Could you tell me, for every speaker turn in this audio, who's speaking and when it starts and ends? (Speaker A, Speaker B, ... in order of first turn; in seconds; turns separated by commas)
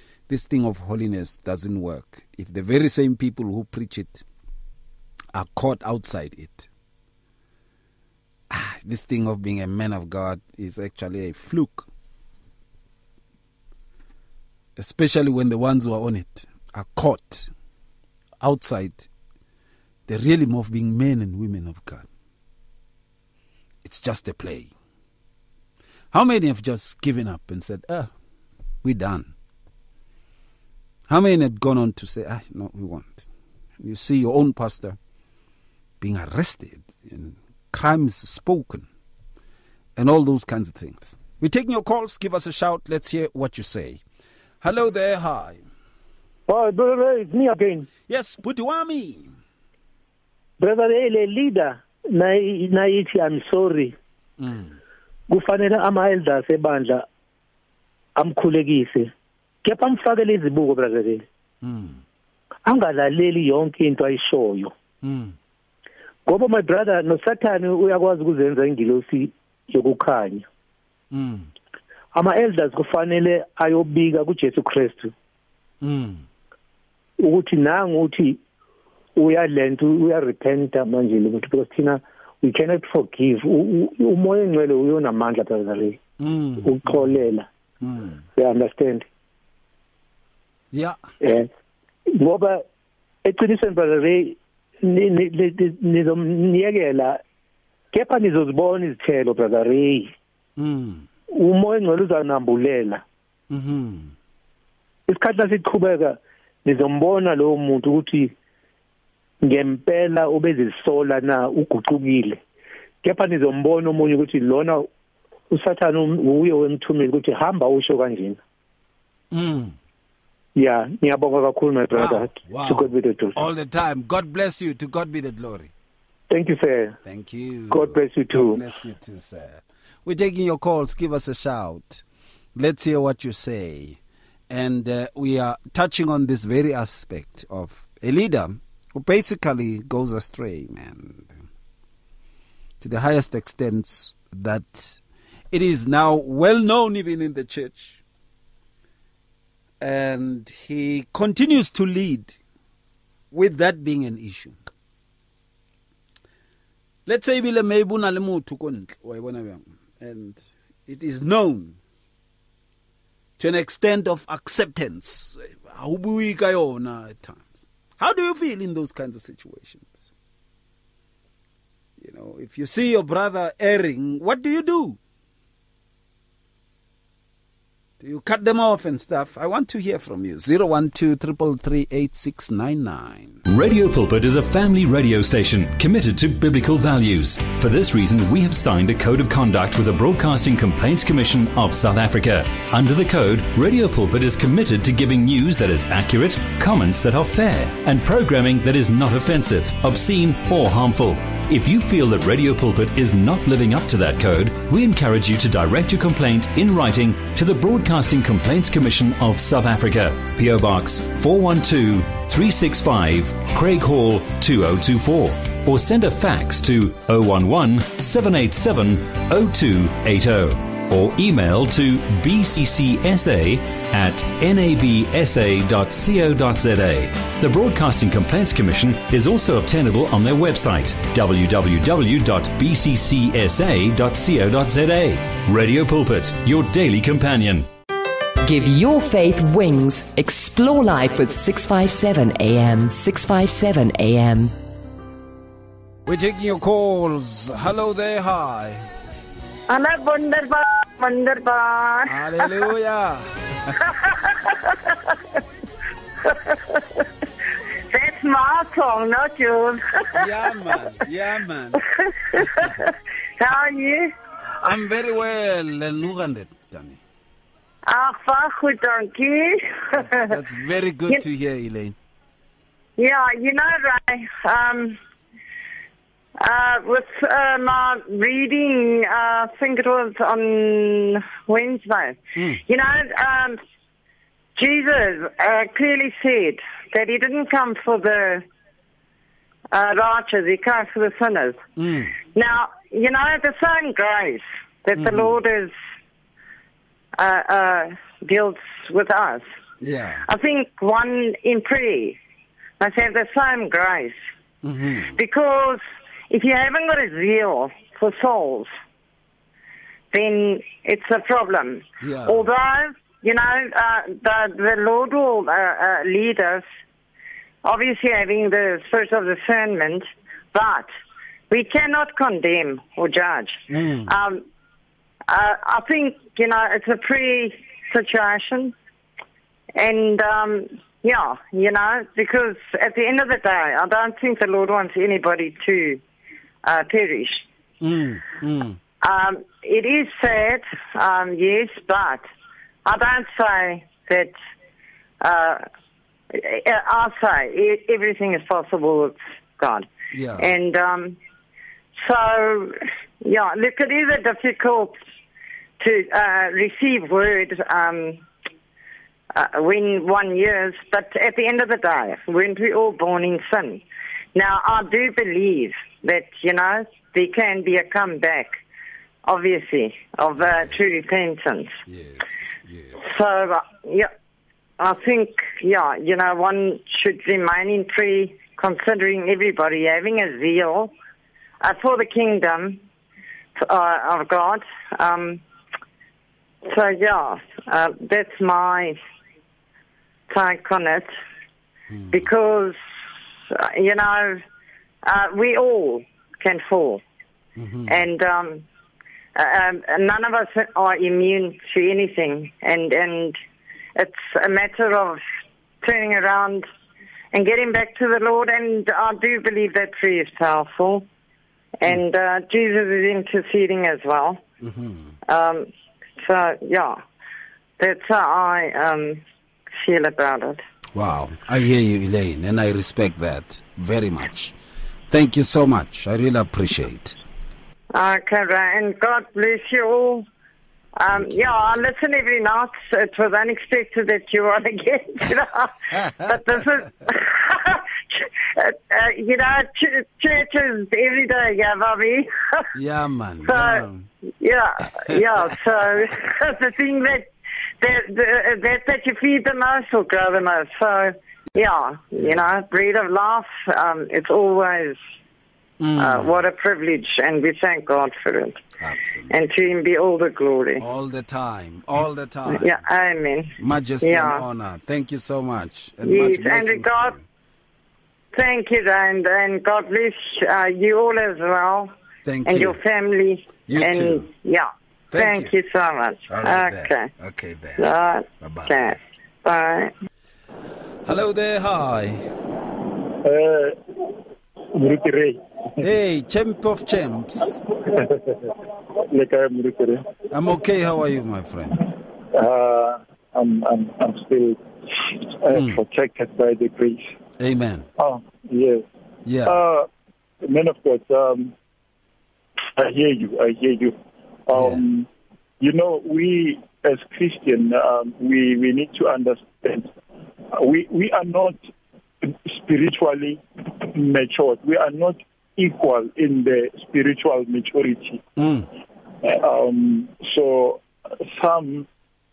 Speaker A: 0.3-4.2, Speaker A: 5.3-6.7, Speaker A: 8.5-11.9, Speaker A: 14.8-17.5, Speaker A: 18.4-19.1, Speaker A: 20.1-22.1, Speaker A: 23.8-24.7, Speaker A: 26.1-28.1, Speaker A: 28.8-29.3, Speaker A: 31.1-35.0, Speaker A: 36.0-38.9, Speaker A: 40.0-44.0, Speaker A: 44.6-45.6, Speaker B: 46.5-47.9, Speaker A: 48.1-49.3, Speaker B: 50.6-54.0, Speaker A: 54.4-54.8, Speaker B: 55.3-57.0, Speaker B: 58.2-59.1, Speaker B: 59.6-61.2, Speaker A: 61.6-62.0, Speaker B: 62.7-64.7, Speaker A: 65.0-65.4, Speaker B: 66.3-70.5, Speaker A: 71.1-71.5, Speaker B: 72.1-75.1, Speaker A: 75.8-76.2, Speaker B: 77.2-78.4, Speaker B: 79.2-86.0, Speaker A: 86.2-87.2, Speaker B: 86.6-87.5, Speaker A: 87.8-88.2, Speaker B: 88.4-89.1, Speaker A: 90.7-91.0, Speaker B: 91.2-91.5, Speaker B: 92.1-92.7, Speaker B: 93.2-97.2, Speaker B: 97.9-100.1, Speaker A: 100.6-101.1, Speaker B: 101.3-103.0, Speaker A: 103.5-104.1, Speaker B: 105.1-108.3, Speaker B: 109.4-112.4, Speaker B: 113.0-114.9, Speaker B: 115.5-118.4, Speaker A: 119.3-119.8, Speaker B: 120.6-123.4, Speaker A: 121.9-125.7, Speaker B: 126.3-127.0, Speaker A: 127.0-132.0, Speaker B: 127.7-128.6, Speaker A: 132.6-134.0, Speaker A: 134.5-141.4, Speaker A: 142.8-145.0, Speaker A: 145.5-148.0, Speaker A: 149.8-152.4, Speaker A: 153.3-154.6, Speaker A: 157.1-161.8, Speaker A: 163.4-170.1, Speaker A: 172.0-175.0, Speaker A: 178.0-183.4, Speaker C: 183.5-237.7, Speaker D: 238.4-244.5, Speaker A: 246.1-248.9, Speaker E: 249.7-252.7, Speaker A: 252.1-253.8, Speaker E: 254.0-255.0, Speaker E: 256.3-257.0, Speaker E: 257.9-260.2, Speaker A: 260.1-261.8, Speaker E: 262.3-264.1, Speaker A: 262.4-262.7, Speaker A: 264.6-267.0, Speaker E: 267.9-270.3, Speaker A: 269.9-272.0, Speaker E: 273.0-275.0, Speaker E: 276.4-283.6, Speaker A: 282.4-282.6, Speaker E: 284.6-288.4, Speaker E: 289.7-291.6, Speaker A: 291.8-292.2, Speaker E: 292.3-295.7, Speaker A: 295.0-295.4, Speaker E: 297.2-299.5, Speaker A: 299.8-300.2, Speaker E: 300.3-302.2, Speaker E: 302.8-304.2, Speaker A: 304.6-305.1, Speaker E: 305.1-308.7, Speaker E: 310.1-316.6, Speaker A: 312.0-312.5, Speaker E: 317.6-320.9, Speaker E: 321.5-324.4, Speaker A: 323.7-324.1, Speaker E: 325.3-328.8, Speaker E: 329.8-336.0, Speaker E: 336.6-337.4, Speaker A: 337.8-338.8, Speaker E: 339.0-342.2, Speaker E: 342.9-344.3, Speaker E: 345.2-345.6, Speaker E: 346.3-351.2, Speaker A: 350.1-350.5, Speaker E: 352.0-355.0, Speaker E: 355.8-358.2, Speaker E: 359.3-363.8, Speaker E: 364.4-368.6, Speaker E: 369.2-371.7, Speaker A: 370.4-370.8, Speaker A: 371.9-373.0, Speaker E: 373.0-374.1, Speaker E: 374.8-380.9, Speaker E: 381.6-382.8, Speaker E: 383.6-385.4, Speaker E: 386.6-389.0, Speaker E: 390.3-391.1, Speaker A: 391.9-392.3, Speaker E: 392.1-392.8, Speaker E: 393.5-394.4, Speaker E: 395.1-397.0, Speaker A: 397.6-398.0, Speaker E: 397.9-398.7, Speaker E: 399.4-403.4, Speaker E: 404.0-405.2, Speaker E: 405.8-406.7, Speaker E: 407.3-411.1, Speaker E: 411.8-414.4, Speaker A: 414.6-415.1, Speaker E: 415.3-417.0, Speaker E: 417.8-419.2, Speaker E: 419.8-420.6, Speaker A: 420.9-424.6, Speaker A: 425.1-427.2, Speaker E: 427.9-430.2, Speaker E: 431.0-442.7, Speaker A: 431.1-431.8, Speaker A: 435.9-436.4, Speaker A: 442.7-444.1, Speaker E: 443.4-443.9, Speaker E: 444.4-447.3, Speaker E: 447.8-455.0, Speaker A: 451.5-452.5, Speaker A: 455.8-456.4, Speaker E: 456.0-458.6, Speaker A: 458.8-459.4, Speaker E: 459.3-460.8, Speaker A: 460.8-462.7, Speaker E: 462.5-464.4, Speaker A: 463.6-467.2, Speaker E: 466.0-467.1, Speaker E: 468.3-471.9, Speaker A: 472.2-472.8, Speaker E: 472.5-477.1, Speaker A: 473.7-474.3, Speaker A: 475.1-475.5, Speaker A: 476.3-477.9, Speaker E: 477.8-479.9, Speaker A: 478.4-479.0, Speaker A: 481.1-482.2, Speaker F: 483.2-483.8, Speaker F: 484.7-485.9, Speaker A: 485.8-487.6, Speaker F: 487.7-488.5, Speaker F: 489.1-490.1, Speaker A: 490.3-491.9, Speaker F: 492.3-497.1, Speaker A: 495.5-495.8, Speaker A: 497.4-497.9, Speaker F: 498.0-498.8, Speaker A: 499.3-499.6, Speaker F: 499.4-499.9, Speaker F: 500.4-501.5, Speaker F: 502.8-504.0, Speaker F: 504.5-505.1, Speaker A: 504.5-504.8, Speaker F: 505.6-509.9, Speaker F: 510.5-511.6, Speaker F: 512.2-518.2, Speaker A: 518.4-518.7, Speaker F: 519.2-521.9